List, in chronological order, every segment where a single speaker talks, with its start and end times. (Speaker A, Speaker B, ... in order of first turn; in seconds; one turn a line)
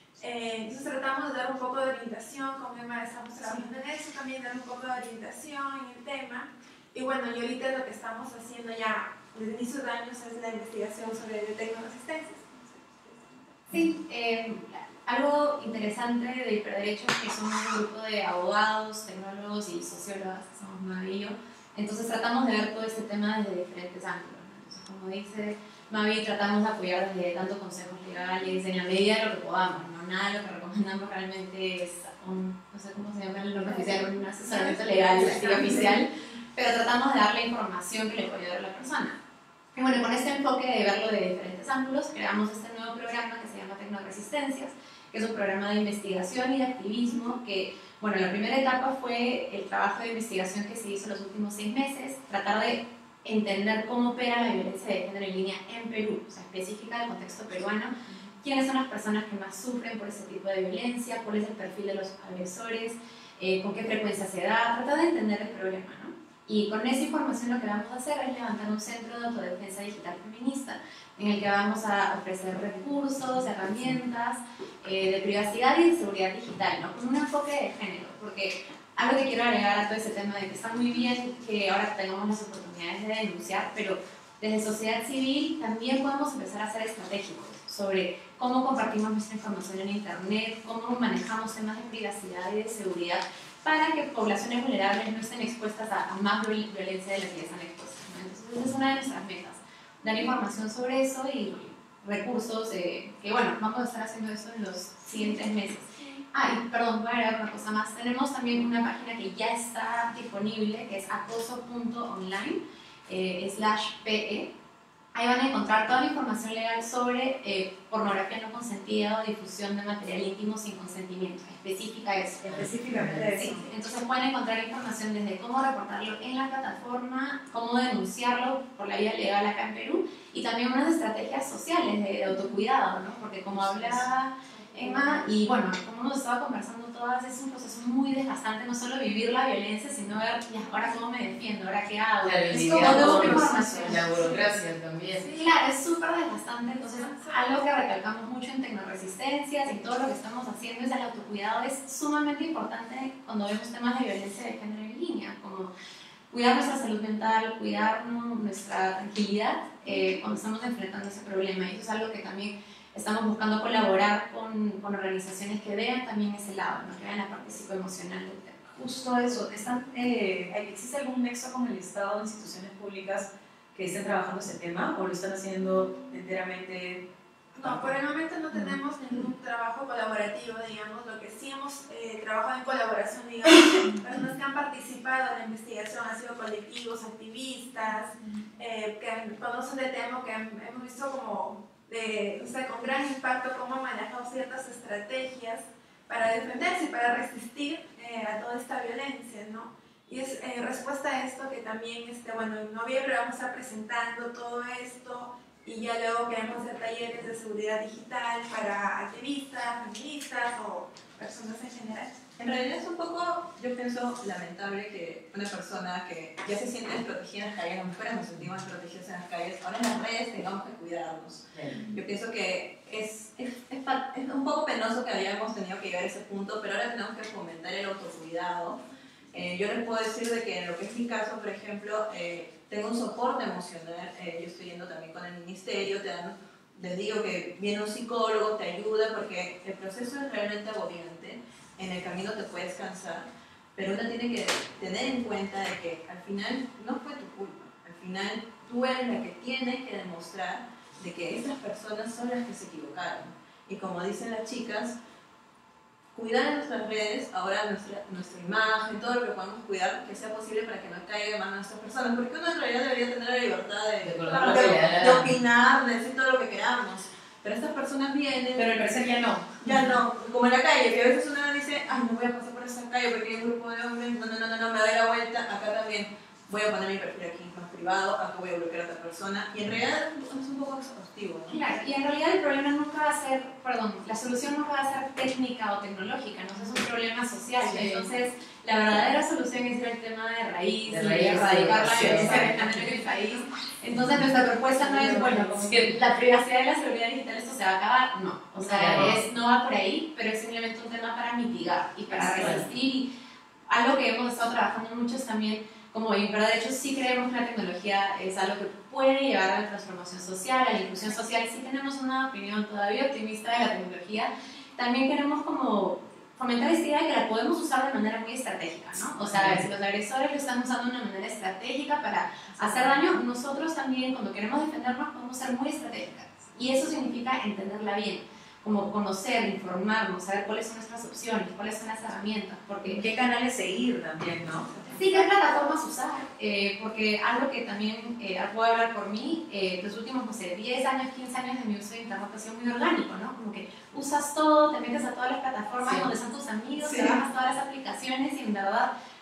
Speaker A: 0.2-13.7
Speaker B: 13.7-39.2
Speaker A: 33.7-36.0
Speaker B: 39.8-114.5
Speaker B: 115.1-144.4
Speaker C: 122.5-123.7
Speaker D: 122.5-123.3
Speaker A: 134.6-135.0
Speaker D: 142.2-145.2
Speaker C: 142.5-144.0
Speaker A: 144.1-144.5
Speaker A: 145.2-145.6
Speaker B: 145.2-155.7
Speaker A: 146.8-147.9
Speaker B: 156.3-168.7
Speaker C: 168.8-177.1
Speaker A: 177.6-212.2
Speaker E: 212.4-228.8
Speaker E: 229.3-255.0
Speaker E: 256.1-269.0
Speaker D: 264.0-265.3
Speaker C: 268.6-269.6
Speaker E: 269.6-281.6
Speaker B: 281.5-303.1
Speaker C: 287.7-288.0
Speaker D: 290.9-292.7
Speaker C: 294.8-295.9
Speaker D: 298.6-299.2
Speaker D: 302.1-302.6
Speaker B: 303.7-333.0
Speaker D: 319.2-319.6
Speaker C: 332.9-334.7
Speaker A: 334.7-335.7
Speaker B: 334.9-348.9
Speaker E: 346.8-347.2